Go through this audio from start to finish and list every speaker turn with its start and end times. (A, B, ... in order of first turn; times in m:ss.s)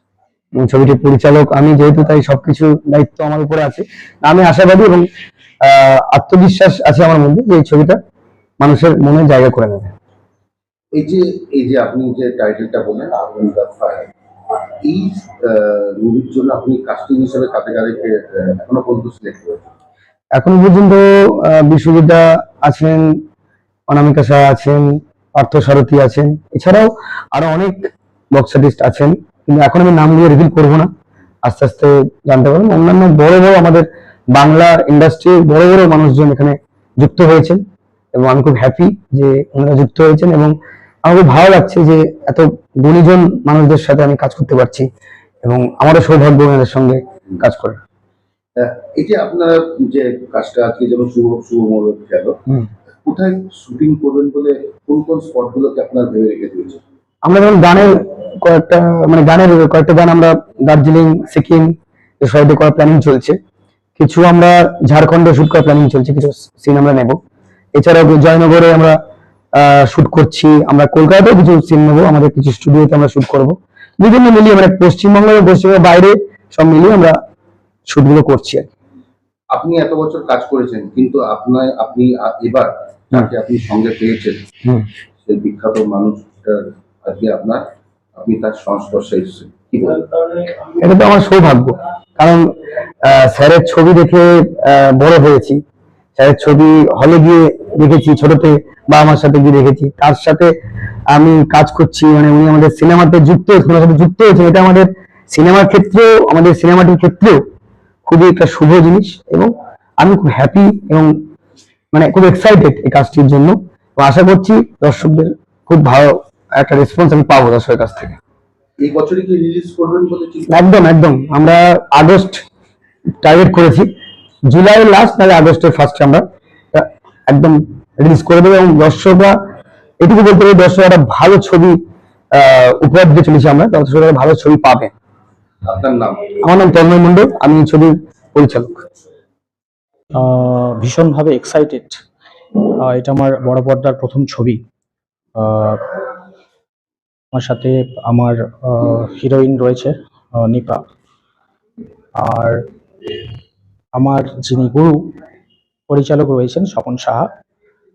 0:00.6-0:05.0 A
0:05.6-0:08.0 A
0:08.6-0:09.9 A
0:11.0-0:14.1 B
0:14.8-0:19.7 B
0:20.4-0:23.2 A
0:23.9-0:30.9 A
0:31.5-0:37.6 A
0:38.2-0:40.5 A
0:41.0-0:44.9 A
0:45.5-0:47.8 A
0:49.0-0:52.3 B
0:53.1-0:56.8 B
0:57.2-1:03.4 A
1:04.0-1:07.2 A
1:07.8-1:09.0 A
1:09.6-1:17.2 A
1:17.9-1:18.6 A
1:19.5-1:24.4 B
1:25.2-1:27.6 B
1:28.2-1:30.1 B
1:30.8-1:32.5 A
1:33.1-1:35.6 A
1:36.2-1:40.5 A
1:41.1-1:47.4 A
1:48.1-1:51.1 A
1:51.9-1:58.2 A
1:58.8-2:00.6 B
2:00.5-2:02.4 A
2:03.2-2:03.9 A
2:04.5-2:09.4 A
2:10.0-2:11.8 A
2:12.4-2:14.9 A
2:15.6-2:16.2 B
2:16.4-2:18.8 A
2:20.2-2:22.0 C
2:22.8-2:24.6 C
2:25.4-2:26.0 C
2:27.3-2:30.8 C
2:32.2-2:32.6 C
2:34.0-2:35.0 C
2:35.9-2:37.3 C